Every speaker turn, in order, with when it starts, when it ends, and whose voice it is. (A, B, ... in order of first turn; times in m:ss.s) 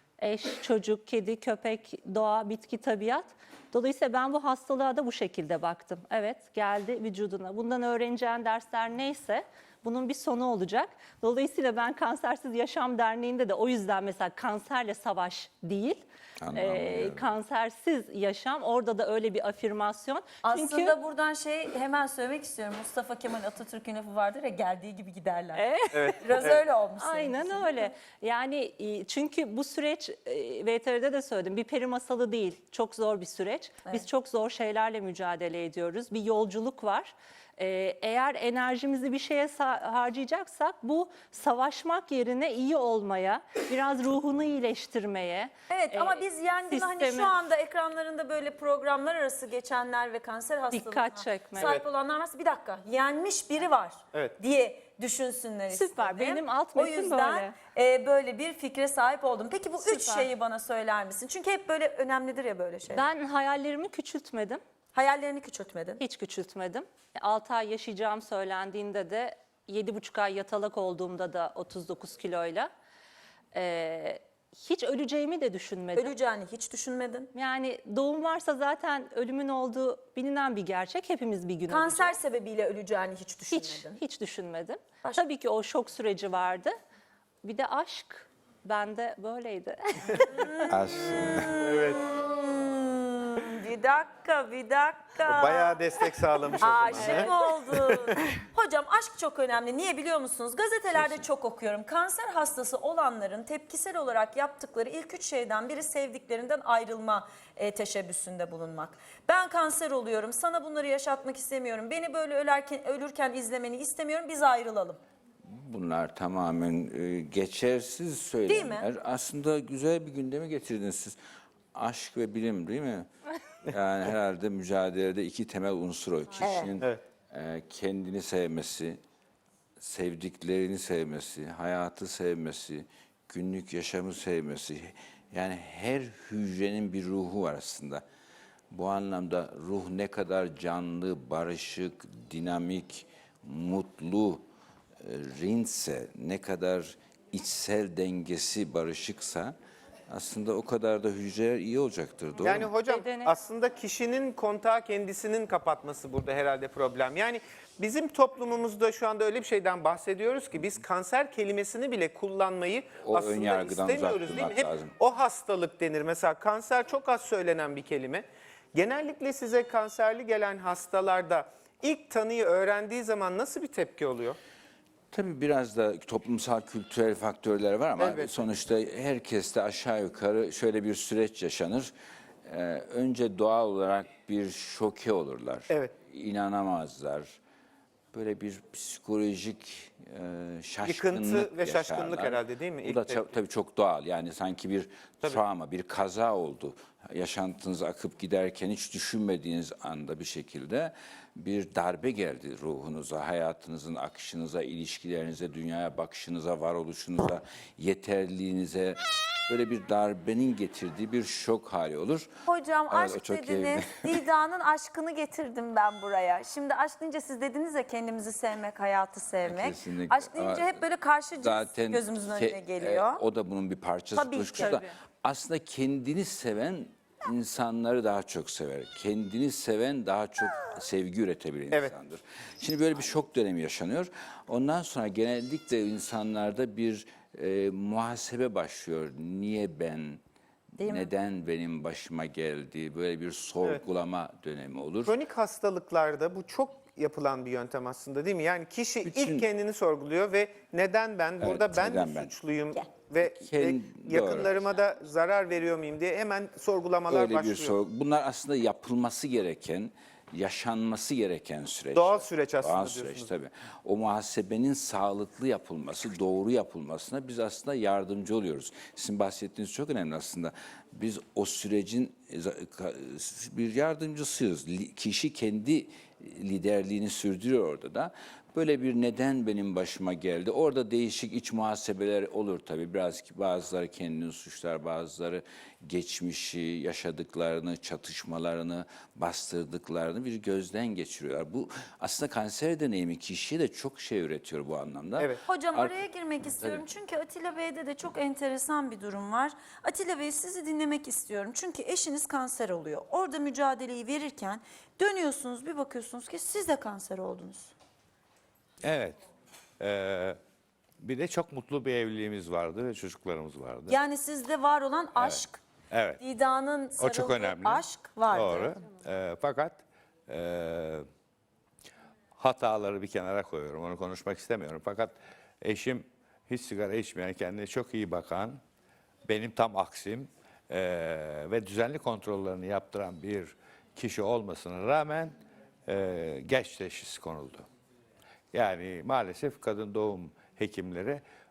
0:00.2-0:21.0 A
0:16.4-0:17.2 B
0:20.4-0:27.9 C
0:25.6-0:47.4 A
0:45.7-1:03.1 C
0:50.7-0:51.8 A
0:55.7-0:57.6 A
0:59.8-1:00.3 A
1:02.9-1:04.6 A
1:04.9-1:06.0 C
1:06.0-1:12.7 A
1:13.5-1:16.1 A
1:16.0-1:17.3 C
1:17.3-1:22.2 A
1:21.7-1:24.0 C
1:23.5-1:26.7 A
1:27.4-1:30.3 A
1:30.2-1:35.8 C
1:30.7-1:31.6 B
1:31.6-1:32.0 D
1:35.2-1:37.3 D
1:36.6-1:55.0 C
1:40.9-1:41.2 B
1:55.4-2:01.2 B
1:58.5-1:58.9 C
2:01.7-2:03.1 B
2:03.7-2:09.0 B
2:06.4-2:06.7 C
2:09.8-2:18.0 B
2:18.7-2:24.5 B
2:25.0-2:29.6 B
2:30.1-2:32.7 B
2:32.4-2:33.3 A
2:32.4-2:54.4 D
2:43.0-2:44.9 B
2:55.1-3:01.9 B
2:58.0-2:58.5 D
3:02.4-3:07.4 B
3:05.7-3:05.9 D
3:08.1-3:32.3 B
3:10.8-3:13.2 D
3:32.5-3:43.2 C
3:32.9-3:34.2 B
3:39.4-3:40.8 B
3:41.4-4:00.2 B
3:44.1-3:44.8 C
3:44.6-3:44.9 A
4:00.8-4:05.2 B
4:05.0-4:17.8 D
4:09.0-4:09.5 B
4:11.4-4:12.3 B
4:13.2-4:14.8 B
4:17.1-4:56.8 B
4:21.9-4:23.3 D
4:55.5-5:07.7 C
5:08.8-5:09.2 E
5:09.8-5:10.4 E
5:11.0-5:14.0 E
5:13.9-5:15.6 C
5:15.2-5:16.2 E
5:16.2-5:18.8 C
5:17.0-5:21.0 E
5:22.4-5:28.6 E
5:29.3-5:35.4 E
5:35.9-5:37.7 E
5:38.5-5:41.2 E